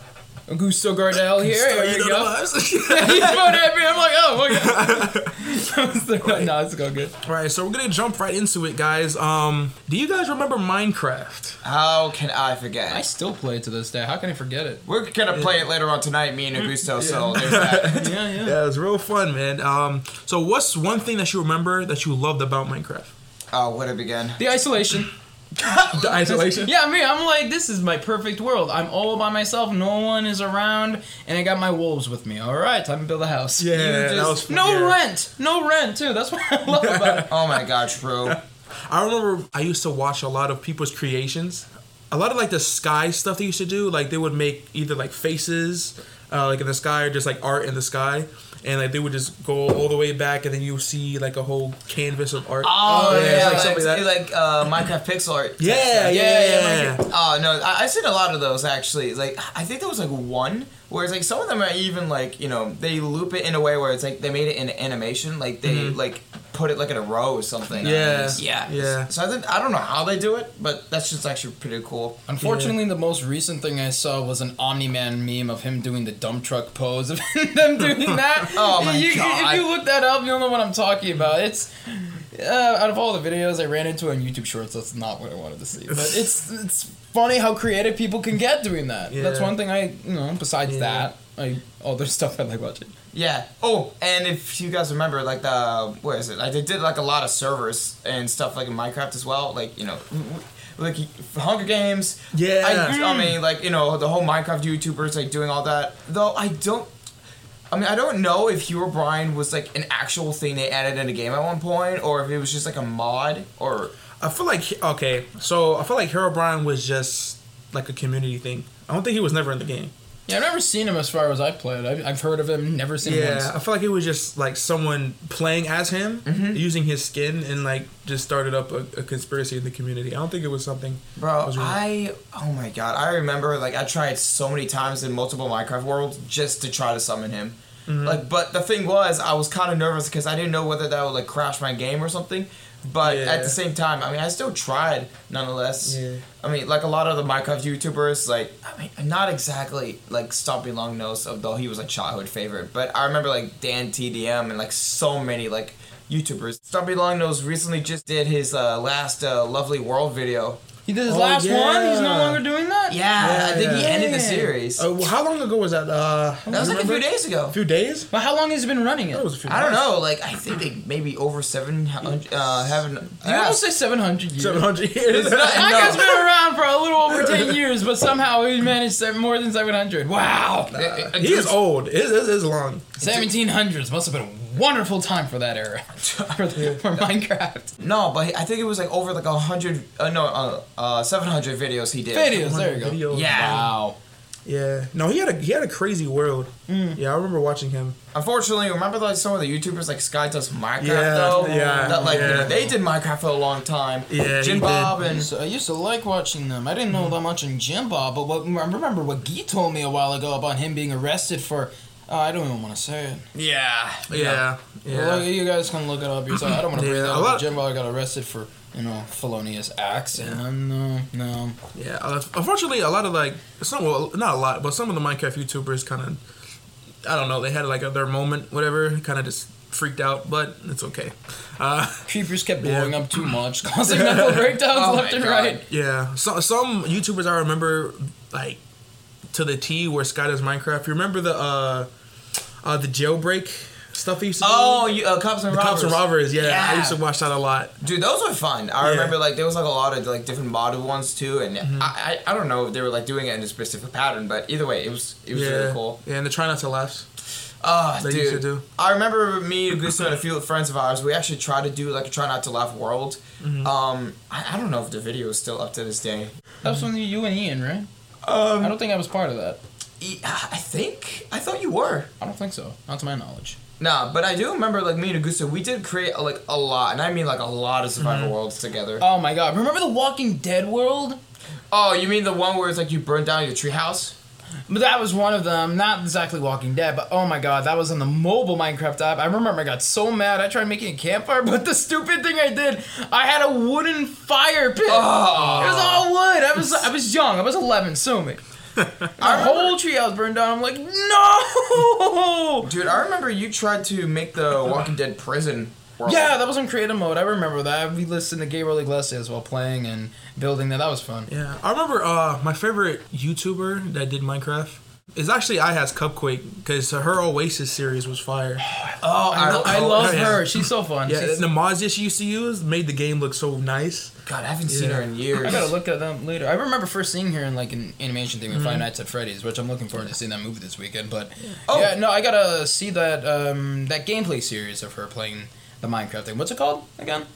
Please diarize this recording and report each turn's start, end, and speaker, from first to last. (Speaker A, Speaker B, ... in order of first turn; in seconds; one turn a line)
Speaker A: 0.5-7.1
Speaker B: 1.1-3.9
Speaker B: 4.5-5.3
Speaker B: 6.2-6.5
Speaker B: 7.2-11.6
Speaker C: 11.6-13.0
Speaker A: 12.9-14.8
Speaker C: 14.9-18.1
Speaker B: 15.3-15.6
Speaker A: 16.6-18.6
Speaker B: 17.0-23.1
Speaker C: 23.5-24.4
Speaker A: 24.4-25.1
Speaker A: 25.7-33.7
Speaker B: 25.9-26.7
Speaker B: 33.6-35.0
Speaker C: 33.7-34.5
Speaker A: 34.5-37.3
Speaker B: 36.7-37.7
Speaker C: 37.2-38.4
Speaker B: 38.2-54.2
Speaker C: 52.6-72.2
Speaker A: 52.9-53.7
Speaker B: 55.6-57.0
Speaker A: 56.1-57.0
Speaker B: 65.6-66.0
Speaker B: 67.8-69.1
Speaker A: 72.3-92.9
Speaker B: 72.4-72.8
Speaker C: 78.5-79.7
Speaker B: 85.9-86.3
Speaker B: 89.1-89.6
Speaker B: 90.7-91.1
Speaker C: 93.1-106.9
Speaker B: 102.3-103.0
Speaker A: 102.9-103.4
Speaker C: 107.7-113.9
Speaker B: 114.2-119.9
Speaker A: 120.3-123.5
Speaker B: 123.0-131.8
Speaker C: 126.2-126.6
Speaker C: 131.2-160.6
Speaker B: 137.9-138.2
Speaker B: 143.0-143.6
Speaker B: 145.8-146.2
Speaker A: 160.8-163.0
Speaker B: 161.1-162.4
Speaker C: 162.9-164.9
Speaker B: 163.2-164.0
Speaker A: 163.7-164.5
Speaker B: 164.8-168.1
Speaker A: 166.5-166.9
Speaker C: 166.5-167.6
Speaker A: 168.1-169.2
Speaker B: 169.1-169.9
Speaker C: 169.5-173.6
Speaker A: 173.2-181.6
Speaker B: 174.4-176.2
Speaker C: 175.1-176.2
Speaker B: 177.1-177.6
Speaker B: 180.7-183.1
Speaker C: 180.7-181.1
Speaker A: 183.0-187.7
Speaker C: 186.0-186.4
Speaker B: 186.6-187.0
Speaker C: 187.8-192.4
Speaker A: 192.1-194.0
Speaker B: 192.3-193.6
Speaker C: 193.1-193.7
Speaker B: 194.5-198.0
Speaker A: 196.7-197.0
Speaker C: 198.1-205.3
Speaker B: 200.8-202.6
Speaker A: 201.2-202.7
Speaker B: 204.1-205.0
Speaker A: 205.0-213.3
Speaker C: 213.3-214.4
Speaker B: 214.1-215.3
Speaker A: 214.9-221.6
Speaker B: 216.6-217.5
Speaker B: 220.2-220.4
Speaker B: 221.8-226.2
Speaker B: 227.0-232.0
Speaker A: 232.1-235.6
Speaker B: 232.6-233.3
Speaker B: 233.9-234.6
Speaker C: 234.7-235.6
Speaker B: 235.7-238.6
Speaker B: 239.3-241.9
Speaker B: 242.6-244.9
Speaker C: 244.4-247.0
Speaker B: 245.5-247.7
Speaker C: 247.8-256.0
Speaker B: 248.8-249.2
Speaker B: 251.6-251.9
Speaker B: 255.3-257.1
Speaker C: 257.6-266.4
Speaker B: 258.0-258.6
Speaker B: 263.4-263.7
Speaker A: 266.6-267.9
Speaker C: 268.2-268.8
Speaker A: 268.6-269.6
Speaker C: 270.0-272.1
Speaker A: 272.2-273.6
Speaker C: 273.8-279.0
Speaker B: 278.0-278.4
Speaker A: 279.0-281.2
Speaker C: 281.7-284.1
Speaker A: 284.7-298.4
Speaker C: 294.9-295.9
Speaker B: 295.3-296.1
Speaker A: 299.2-302.7
Speaker C: 299.2-299.8
Speaker C: 302.6-306.3
Speaker A: 306.1-311.3
Speaker B: 311.3-318.6
Speaker A: 318.7-321.5
Speaker C: 319.3-320.4
Speaker B: 319.5-324.1
Speaker C: 324.2-325.7
Speaker B: 324.7-325.1
Speaker A: 325.4-337.3
Speaker B: 328.5-328.9
Speaker C: 331.7-331.9